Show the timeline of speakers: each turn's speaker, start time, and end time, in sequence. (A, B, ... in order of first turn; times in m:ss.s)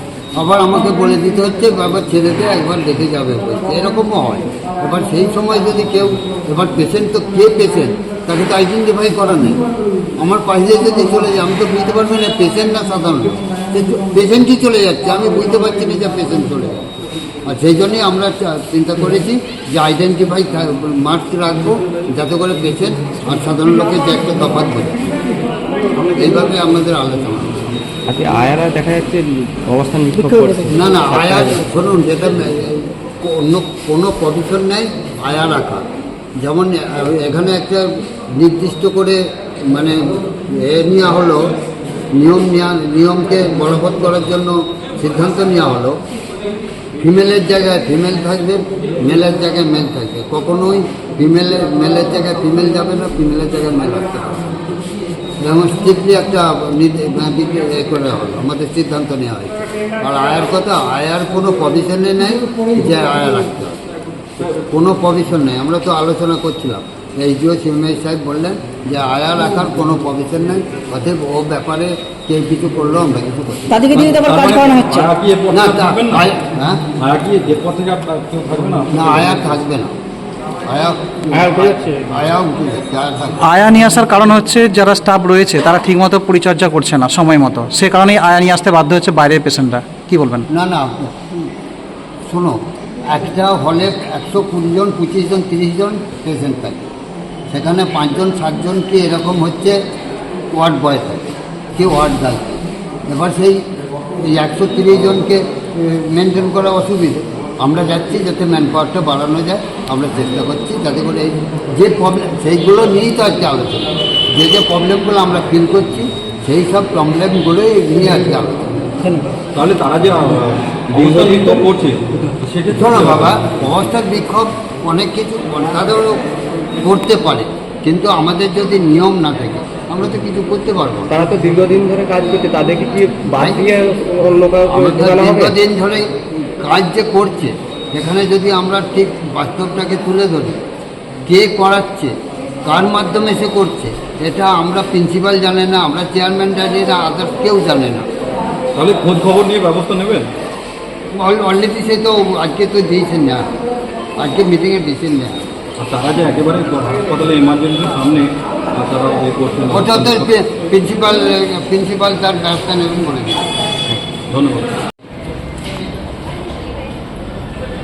0:00.4-0:09.6 A
0:10.2-0:16.8 A
0:17.4-0:25.0 A
0:26.0-0:27.7 A
0:28.1-0:31.6 B
0:30.1-0:30.6 C
0:30.6-0:35.8 A
0:36.4-0:41.5 A
0:42.1-0:46.0 A
0:47.0-0:54.5 A
0:55.4-1:03.8 A
1:04.7-1:13.8 A
1:13.7-1:15.1 C
1:13.9-1:16.3 D
1:15.5-1:16.8 A
1:17.0-1:19.4 D
1:18.9-1:19.9 A
1:20.6-1:23.4 A
1:21.3-1:22.0 B
1:23.4-1:30.4 E
1:30.5-1:31.5 A
1:32.3-1:36.8 A
1:37.5-1:39.8 A
1:40.5-1:43.6 A
1:44.2-1:58.8 A
1:59.0-1:59.3 C
1:59.5-2:03.4 D
2:00.9-2:01.7 B
2:02.7-2:06.2 A
2:06.8-2:11.3 A
2:11.1-2:15.5 B
2:13.4-2:13.6 A
2:14.6-2:20.6 A
2:21.3-2:22.1 A
2:22.6-2:28.0 A
2:28.7-2:30.3 D
2:31.1-2:33.4 A
2:34.2-2:35.4 A
2:35.8-2:40.3 D
2:39.7-2:43.5 A
2:44.3-2:44.7 D